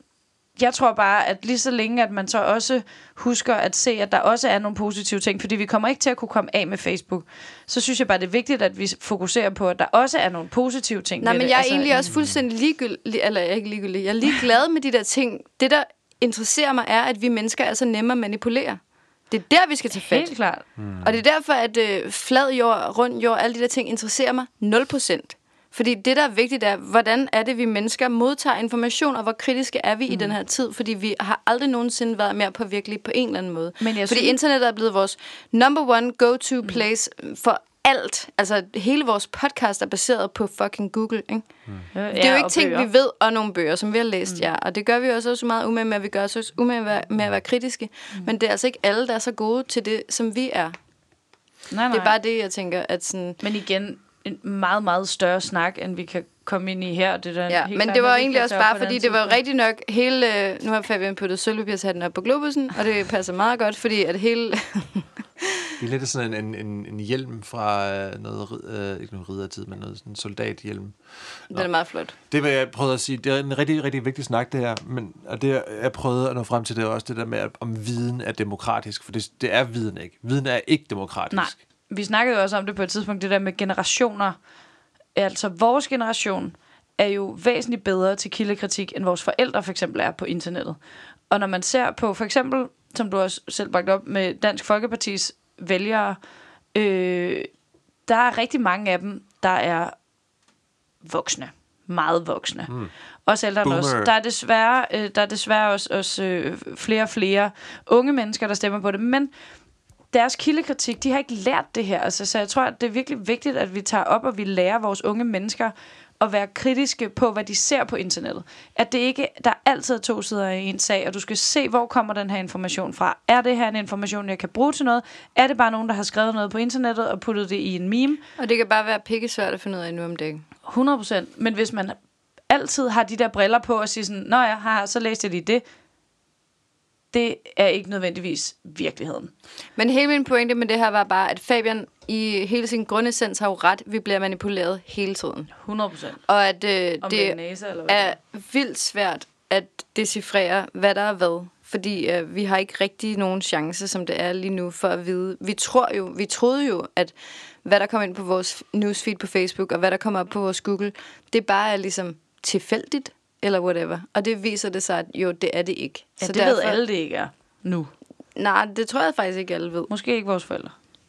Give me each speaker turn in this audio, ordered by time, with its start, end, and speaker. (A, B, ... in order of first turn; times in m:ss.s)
0:00.6-0:12.1 A
0:11.2-0:20.3 B
0:12.1-0:12.4 C
0:19.9-0:20.6 A
0:20.8-0:21.1 C
0:21.0-0:41.5 B
0:30.1-0:30.3 A
0:33.8-0:34.4 A
0:41.9-0:42.9 A
0:42.1-0:50.7 B
0:51.7-0:52.2 A
0:51.9-0:53.4 B
0:53.4-0:59.4 A
0:57.5-1:05.7 B
1:05.8-1:11.0 C
1:11.5-1:12.2 B
1:12.3-1:21.6 C
1:21.3-1:24.4 A
1:25.2-1:30.8 A
1:31.3-1:36.2 A
1:36.7-1:37.5 A
1:38.1-1:39.9 A
1:41.0-1:42.7 A
1:43.3-1:49.3 A
1:43.6-1:44.1 C
1:50.1-2:08.2 A
2:08.4-2:10.4 B
2:10.7-2:12.0 A
2:12.5-2:15.6 A
2:17.1-2:19.3 A
2:19.8-2:25.5 B
2:25.6-2:26.2 A
2:26.3-2:46.8 B
2:27.0-2:28.1 A
2:46.2-2:47.9 A
2:48.4-2:49.9 B
2:49.9-2:50.8 A